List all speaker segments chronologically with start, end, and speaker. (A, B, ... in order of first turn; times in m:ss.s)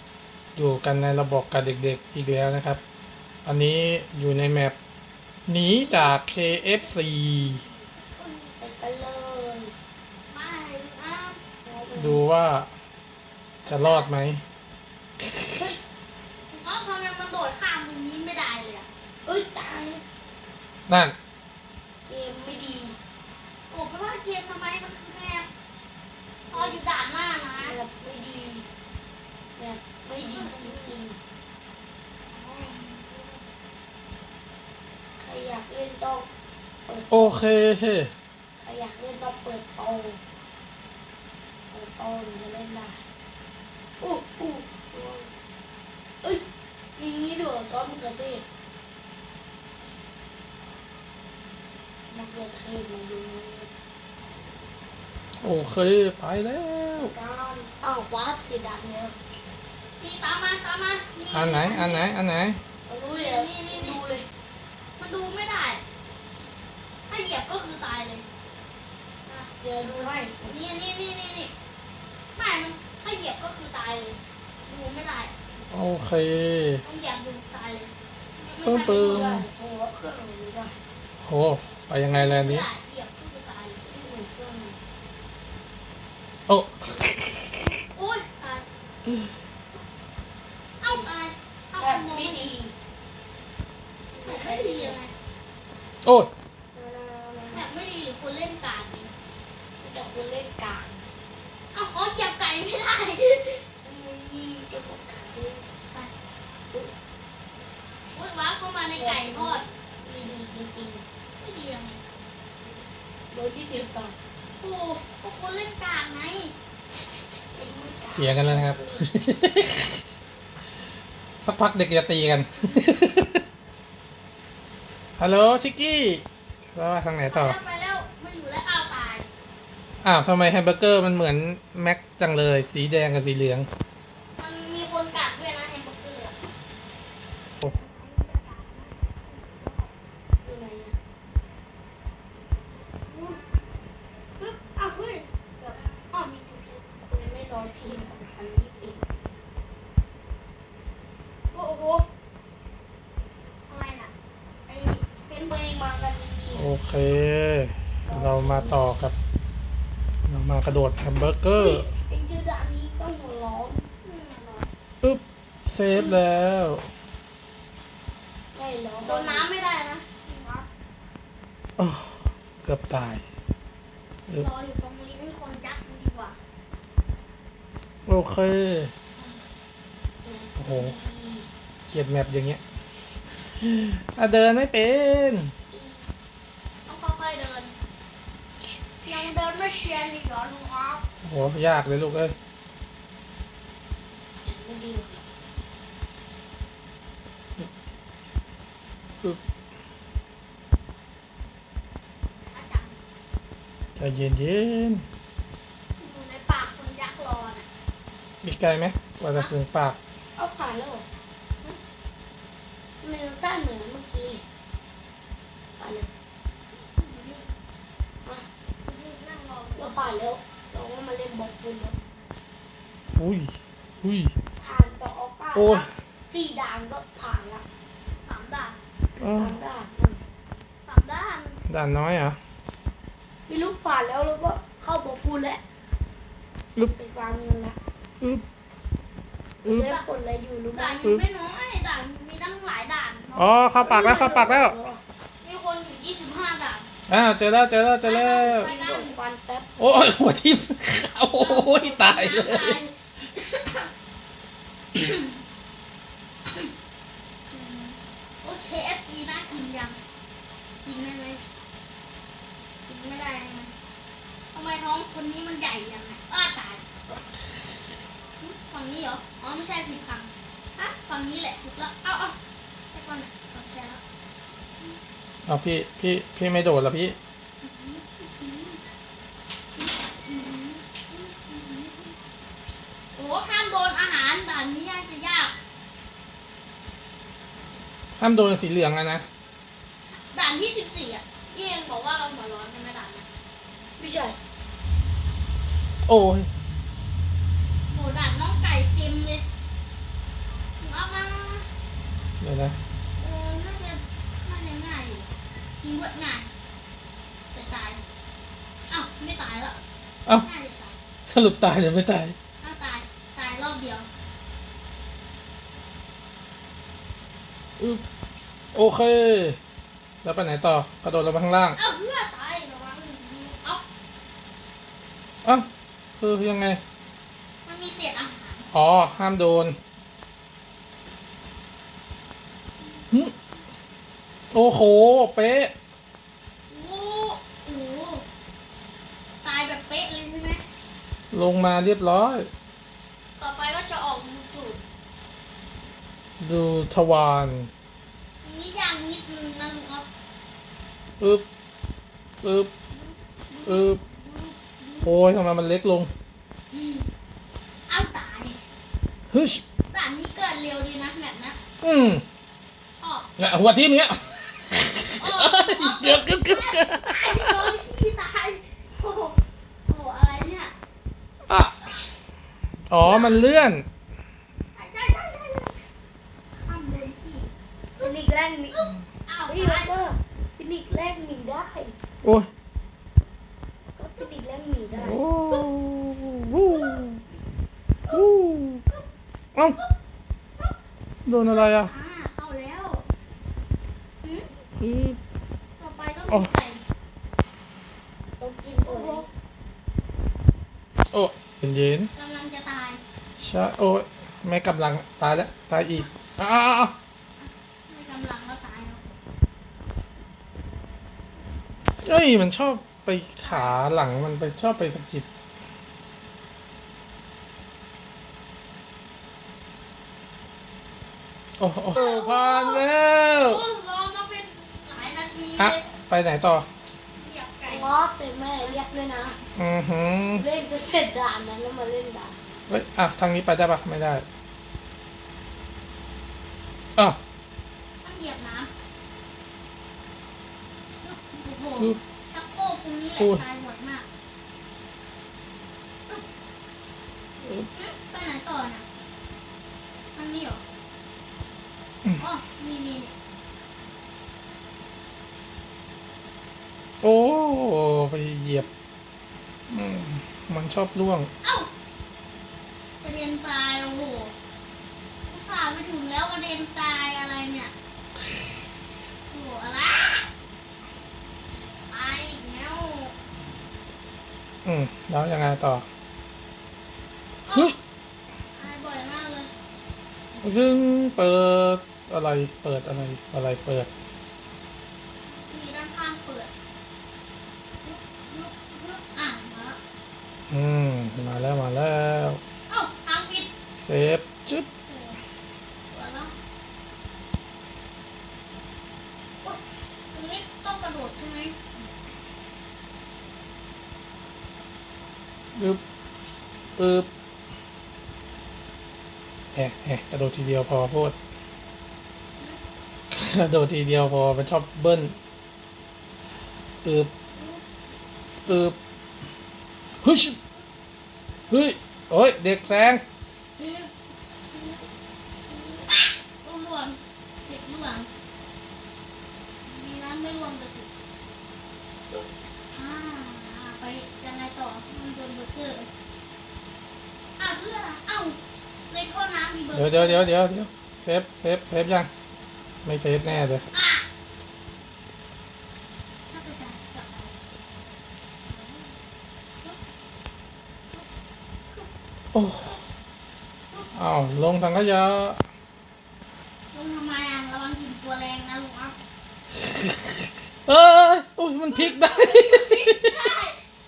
0:00.6-0:02.8 A
0:03.4-0:04.8 A
0:05.5-0:07.6 A
0:05.8-0:08.5 B
0:08.6-0:09.7 C
0:10.3-0:11.4 B
0:11.7-0:12.2 C
0:11.9-0:12.7 A
0:13.7-0:14.1 B
0:13.7-0:14.4 A
0:15.2-0:15.6 A
0:15.5-0:15.8 C
0:16.5-0:18.9 B
0:19.2-0:20.0 C
0:20.9-0:21.1 A
0:22.1-0:23.0 C
0:23.7-0:25.5 B
0:26.5-0:27.8 B
0:26.5-0:26.8 C
0:27.6-0:28.7 C
0:29.6-0:31.2 C
0:30.2-0:31.0 B
0:32.3-0:33.4 B
0:35.2-0:36.3 C
0:36.8-0:37.4 C
0:37.1-0:38.1 A
0:38.6-0:40.2 C
0:41.7-0:43.0 C
0:44.0-0:45.3 C
0:47.0-0:48.4 C
0:52.1-0:53.7 C
0:55.4-0:57.1 A
0:57.0-0:59.1 C
1:00.0-1:02.1 B
1:01.3-1:02.6 A
1:02.9-1:04.3 C
1:03.1-1:04.0 B
1:05.0-1:05.8 B
1:07.1-1:08.2 B
1:09.6-1:10.6 C
1:10.4-1:11.5 B
1:12.3-1:15.3 B
1:15.7-1:16.8 A
1:16.8-1:19.4 B
1:18.6-1:19.4 A
1:18.8-1:20.8 C
1:21.2-1:22.7 A
1:22.1-1:23.8 B
1:23.8-1:24.8 C
1:26.5-1:27.7 A
1:27.9-1:28.6 B
1:30.8-1:32.5 B
1:30.8-1:31.1 C
1:31.8-1:32.7 C
1:34.1-1:35.0 C
1:34.2-1:35.1 B
1:36.0-1:36.3 A
1:36.8-1:37.7 C
1:37.5-1:39.1 B
1:39.8-1:41.1 C
1:41.7-1:43.6 B
1:43.8-1:45.7 C
1:48.1-1:49.6 B
1:48.9-1:51.0 C
1:51.4-1:52.0 B
1:53.3-1:54.2 C
1:54.6-1:56.5 B
1:57.5-1:59.0 C
1:58.1-2:00.0 A
2:01.4-2:03.4 A
2:05.2-2:06.2 A
2:06.8-2:07.6 A
2:07.3-2:09.3 B
2:10.0-2:13.7 A
2:14.4-2:16.3 B
2:18.0-2:19.9 B
2:20.4-2:20.9 C
2:23.1-2:23.4 B
2:24.4-2:26.8 B
2:27.0-2:29.0 C
2:31.5-2:32.1 B
2:33.7-2:34.1 B
2:34.7-2:35.6 B
2:35.5-2:36.7 C
2:36.5-2:39.2 A
2:38.1-2:38.8 C
2:40.3-2:41.9 A
2:41.5-2:43.8 C
2:44.0-2:44.7 B
2:45.0-2:46.8 A
2:45.9-2:46.2 B
2:48.5-2:49.5 C
2:49.0-2:50.6 B
2:51.8-2:53.2 A
2:54.4-2:56.4 B
2:58.1-2:58.9 A
2:59.2-2:59.4 B
3:00.2-3:01.5 C
3:00.6-3:00.9 A
3:01.9-3:02.6 A
3:03.6-3:05.5 A
3:05.7-3:06.1 C
3:06.9-3:07.8 B
3:09.0-3:11.0 B
3:11.2-3:12.3 A
3:14.4-3:15.2 C
3:22.4-3:23.0 B
3:24.0-3:25.0 A
3:26.0-3:27.6 B
3:28.4-3:30.0 A
3:30.4-3:31.0 C
3:33.0-3:34.4 C
3:35.8-3:36.1 C
3:36.8-3:37.5 B
3:38.8-3:40.2 B
3:39.8-3:42.0 C
3:43.2-3:44.3 A
3:44.6-3:47.6 C
3:45.5-3:45.9 A
3:48.2-3:48.8 B
3:49.2-3:49.6 A
3:49.2-3:50.2 C
3:50.8-3:51.6 B
3:51.7-3:52.4 A
3:53.5-3:55.6 C
3:56.8-3:57.8 C
3:59.6-4:00.0 A
3:59.6-4:01.1 C
4:00.7-4:04.4 B
4:03.3-4:04.8 A
4:03.8-4:05.0 C
4:05.4-4:06.9 B
4:07.1-4:08.7 A
4:08.0-4:09.2 B
4:08.4-4:09.7 C
4:09.8-4:12.8 A
4:11.4-4:13.9 B
4:14.9-4:15.4 B
4:17.5-4:20.0 B
4:20.8-4:21.4 B
4:22.9-4:23.7 B
4:24.5-4:26.9 B
4:28.4-4:32.4 B
4:32.9-4:34.0 B
4:35.4-4:37.2 A
4:37.6-4:38.8 B
4:39.8-4:42.1 B
4:43.1-4:45.6 B
4:48.2-4:49.2 A
4:50.3-4:53.2 B
4:54.0-4:54.4 C
4:56.1-4:56.5 A
4:57.9-4:59.4 B
5:00.8-5:01.7 B
5:02.4-5:02.8 A
5:03.2-5:05.3 B
5:05.8-5:06.5 B
5:07.5-5:08.0 B
5:08.9-5:09.8 B
5:10.3-5:10.9 B
5:11.3-5:12.4 A
5:12.6-5:14.1 B
5:18.7-5:19.6 A
5:20.2-5:21.8 A
5:21.8-5:23.8 B
5:26.2-5:26.8 A
5:27.6-5:28.7 B
5:28.7-5:29.8 A
5:34.5-5:35.7 A
5:36.7-5:38.2 B
5:39.4-5:40.6 B
5:41.3-5:42.5 A
5:43.4-5:44.8 B
5:46.4-5:47.7 A
5:48.4-5:50.1 B
5:52.4-5:52.7 A
5:52.9-5:55.1 B
5:53.6-5:54.0 A
5:55.0-5:56.1 A
5:56.7-5:57.1 B
5:57.9-5:58.6 B
5:59.3-5:59.6 A
5:59.9-6:01.6 B
6:01.8-6:02.2 A
6:03.0-6:03.3 B
6:03.4-6:07.7 A
6:05.2-6:10.7 B
6:11.5-6:11.8 A
6:12.9-6:13.9 A
6:13.0-6:13.4 B
6:14.8-6:15.8 B
6:16.6-6:18.1 B
6:18.0-6:18.8 C
6:18.7-6:20.0 B
6:19.5-6:21.9 C
6:22.2-6:22.5 A
6:24.0-6:25.3 C
6:24.9-6:27.2 A
6:26.6-6:27.0 B
6:28.1-6:28.8 A
6:31.2-6:31.9 A
6:31.4-6:33.0 B
6:34.8-6:35.2 A
6:35.8-6:36.8 B
6:38.4-6:39.3 C
6:38.9-6:39.3 B
6:41.1-6:42.1 A
6:42.1-6:43.0 B
6:43.4-6:46.9 A
6:47.4-6:49.0 B
6:52.0-6:55.2 A
6:53.4-6:53.8 B
7:01.6-7:03.6 A
7:01.9-7:05.8 B
7:05.6-7:06.7 A
7:07.2-7:07.9 B
7:07.6-7:09.4 C
7:09.6-7:10.4 A
7:10.3-7:12.4 C
7:12.7-7:14.2 A
7:18.0-7:18.7 B
7:21.0-7:24.1 B
7:27.7-7:28.8 B
7:30.1-7:30.6 B
7:32.2-7:33.1 B
7:37.0-7:38.7 A
7:39.7-7:41.3 A
7:41.4-7:41.7 B
7:43.0-7:44.3 B
7:45.3-7:47.7 B
7:49.3-7:50.3 B
7:51.9-7:53.1 B
7:54.6-7:55.8 A
7:57.4-7:57.8 B
7:58.6-7:59.5 B
8:00.4-8:03.9 A
8:05.5-8:06.5 B
8:07.8-8:09.8 B
8:10.5-8:12.4 A
8:12.7-8:13.5 B
8:13.8-8:14.7 A
8:14.9-8:15.2 B
8:15.9-8:16.3 B
8:20.1-8:21.6 B
8:25.6-8:25.8 A
8:26.8-8:27.1 A
8:29.5-8:31.1 A
8:33.1-8:35.2 A
8:36.8-8:37.1 A
8:38.5-8:38.8 A
8:40.0-8:40.4 A
8:41.5-8:43.0 A
8:43.6-8:43.9 B
8:45.5-8:48.1 B
8:49.6-8:50.9 B
8:52.7-8:55.9 B
8:57.4-8:58.4 B
8:58.9-9:00.3 B
8:59.7-9:02.1 A
9:02.8-9:03.6 A
9:03.2-9:04.0 B
9:06.3-9:07.3 B
9:08.5-9:08.9 B
9:12.3-9:12.8 A
9:14.0-9:15.4 A
9:16.7-9:19.0 B
9:20.6-9:23.2 A
9:21.7-9:23.6 B